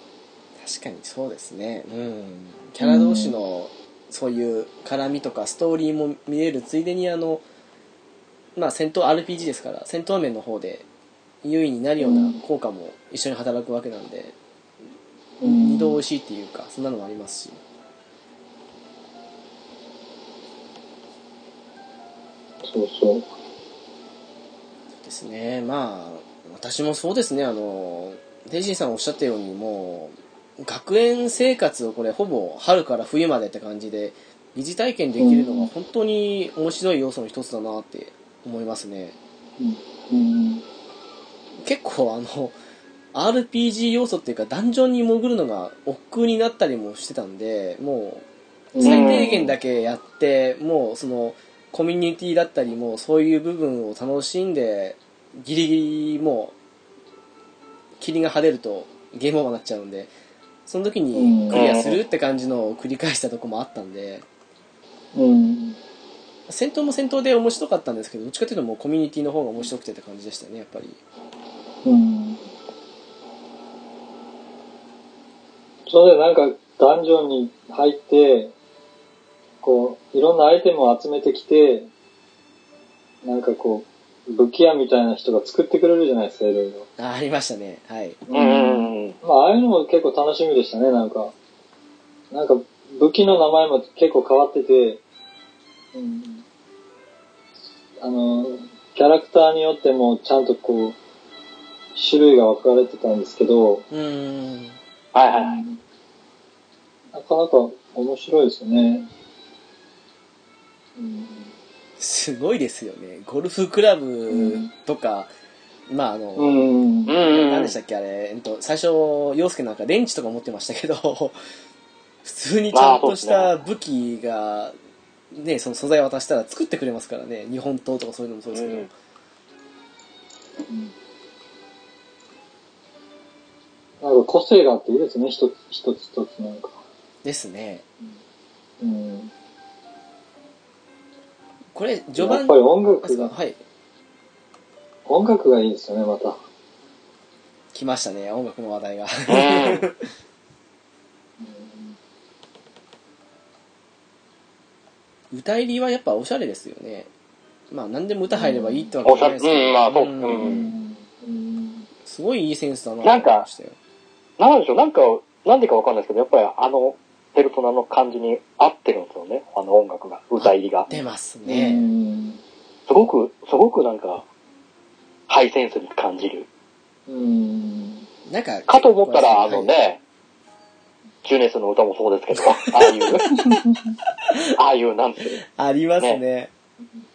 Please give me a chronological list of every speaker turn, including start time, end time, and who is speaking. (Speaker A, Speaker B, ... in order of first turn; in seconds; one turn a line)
Speaker A: 0.6-7.4
Speaker B: 2.8-3.4
Speaker A: 8.6-10.8
Speaker A: 11.4-14.3
Speaker B: 12.0-12.4
Speaker B: 15.4-16.0
Speaker A: 15.4-17.6
Speaker B: 22.6-23.3
Speaker A: 25.0-39.2
Speaker B: 35.2-35.7
Speaker B: 39.6-40.6
Speaker A: 41.6-42.5
Speaker A: 43.1-48.2
Speaker B: 48.7-49.5
Speaker A: 48.8-56.5
Speaker C: 48.8-49.4
Speaker A: 58.0-60.1
Speaker A: 60.7-64.2
Speaker B: 61.1-61.6
Speaker C: 61.5-62.0
Speaker B: 65.1-65.8
Speaker A: 66.5-71.0
Speaker B: 71.8-72.4
Speaker B: 75.9-78.5
Speaker B: 79.6-81.9
Speaker B: 83.2-86.9
Speaker A: 87.0-88.2
Speaker B: 88.3-91.3
Speaker C: 88.3-89.2
Speaker B: 92.3-95.0
Speaker B: 95.9-96.4
Speaker B: 98.0-101.0
Speaker B: 102.0-103.8
Speaker A: 103.9-104.8
Speaker C: 105.1-105.6
Speaker B: 105.3-105.8
Speaker B: 107.1-109.1
Speaker B: 111.0-111.5
Speaker A: 112.0-115.3
Speaker B: 114.3-114.7
Speaker A: 115.9-116.6
Speaker B: 116.4-117.1
Speaker C: 117.1-117.8
Speaker A: 117.2-121.4
Speaker A: 122.2-124.7
Speaker C: 122.7-123.5
Speaker A: 125.3-128.9
Speaker C: 128.5-128.9
Speaker B: 134.0-136.8
Speaker A: 137.2-137.8
Speaker B: 138.8-139.3
Speaker A: 141.7-143.6
Speaker B: 142.2-143.3
Speaker B: 145.1-146.4
Speaker A: 147.7-150.0
Speaker C: 149.3-149.9
Speaker B: 151.4-151.9
Speaker A: 155.3-157.1
Speaker A: 157.7-160.5
Speaker B: 158.3-158.9
Speaker C: 159.1-160.7
Speaker B: 160.3-161.9
Speaker A: 162.0-163.8
Speaker C: 163.0-163.4
Speaker C: 164.4-170.9
Speaker A: 170.4-171.9
Speaker B: 170.9-172.4
Speaker C: 172.9-174.2
Speaker C: 175.3-176.5
Speaker B: 177.1-178.1
Speaker A: 178.3-179.7
Speaker C: 178.7-180.0
Speaker C: 181.2-183.3
Speaker A: 182.3-183.4
Speaker B: 183.3-183.9
Speaker C: 184.5-185.4
Speaker A: 185.5-186.5